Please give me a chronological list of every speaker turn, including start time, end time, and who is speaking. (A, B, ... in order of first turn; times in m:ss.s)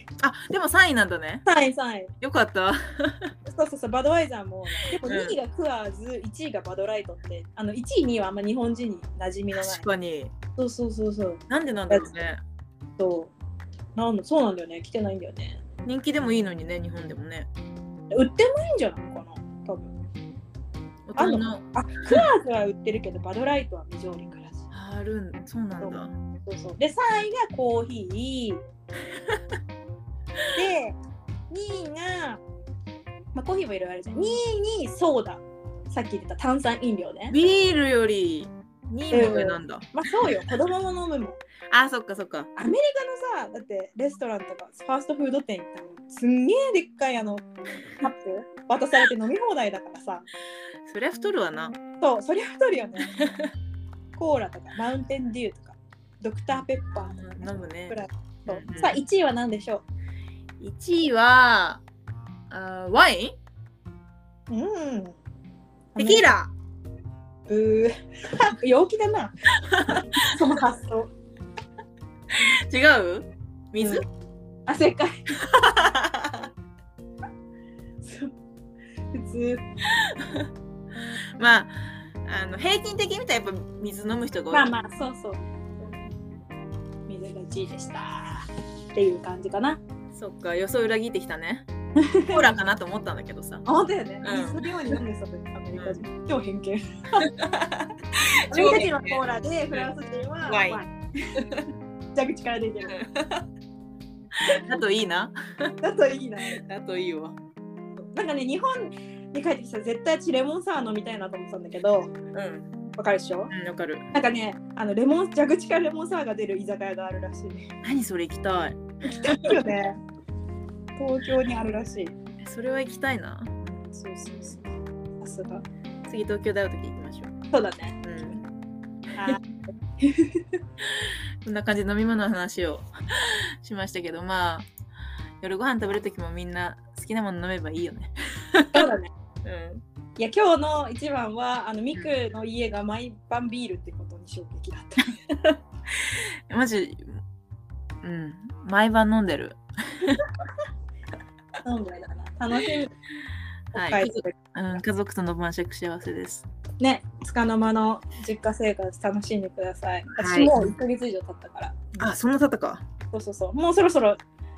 0:00.2-0:01.4 A
0:01.4-0:02.1 B
0:02.2-0:03.3 A
0:03.4-0:09.8 B
0:05.0-0:05.4 A
0:09.6-0:10.3 A
0:10.6-0:12.1 B
0:11.5-0:12.4 A
0:13.0-0:13.3 B
0:14.0-0:15.6 B
0:15.8-0:17.5 A
0:18.1-0:19.9 B
0:21.1-0:22.2 A
0:21.2-0:24.7 B
0:24.7-0:26.1 A
0:25.8-0:28.6 B
0:30.5-0:31.0 B
0:31.5-0:32.4 B
0:33.3-0:37.3 B
0:37.3-0:40.3 A
0:39.1-0:41.4 B
0:41.7-0:42.5 A
0:42.6-0:47.5 B
0:48.0-0:50.3 B
0:50.8-0:51.8 A
0:52.0-0:53.1 B
0:53.2-0:53.5 A
0:54.2-0:59.8 B
0:56.5-0:59.0 A
1:00.6-1:01.8 A
1:02.5-1:03.4 A
1:04.5-1:05.1 B
1:06.0-1:06.3 B
1:06.0-1:06.5 A
1:07.5-1:09.3 B
1:09.6-1:10.2 A
1:10.2-1:11.1 B
1:12.3-1:14.0 A
1:13.8-1:14.0 B
1:14.7-1:15.2 B
1:15.5-1:16.4 A
1:18.0-1:18.3 B
1:19.1-1:19.6 B
1:20.0-1:20.4 A
1:21.4-1:24.7 A
1:24.5-1:26.0 B
1:27.1-1:29.8 B
1:30.1-1:31.7 A
1:32.0-1:32.6 B
1:32.3-1:33.6 A
1:33.6-1:37.3 B
1:34.2-1:35.0 A
1:35.7-1:36.0 A
1:37.2-1:39.2 A
1:38.5-1:40.9 B
1:40.5-1:40.8 A
1:41.4-1:41.6 A
1:42.1-1:43.0 B
1:42.8-1:43.4 A
1:44.5-1:45.7 A
1:45.8-1:46.6 B
1:46.4-1:47.4 A
1:48.0-1:52.1 B
1:52.3-1:52.7 A
1:53.0-1:53.5 B
1:53.5-1:54.0 A
1:54.1-1:57.7 B
1:57.8-1:59.7 A
1:59.2-2:00.0 B
2:01.0-2:02.1 B
2:02.4-2:03.5 A
2:03.6-2:04.6 B
2:05.2-2:05.6 B
2:06.0-2:07.3 A
2:07.5-2:08.0 B
2:08.0-2:08.4 A
2:09.2-2:09.4 B
2:10.0-2:10.4 B
2:10.8-2:14.7 A
2:15.4-2:18.9 A
2:18.7-2:19.1 B
2:19.4-2:19.8 A
2:20.2-2:25.2 B
2:25.4-2:27.2 A
2:28.0-2:30.2 A
2:31.6-2:32.9 B
2:33.7-2:34.4 B
2:33.7-2:36.4 A
2:36.8-2:42.1 B
2:40.2-2:40.7 A
2:42.0-2:42.8 A
2:43.1-2:44.2 B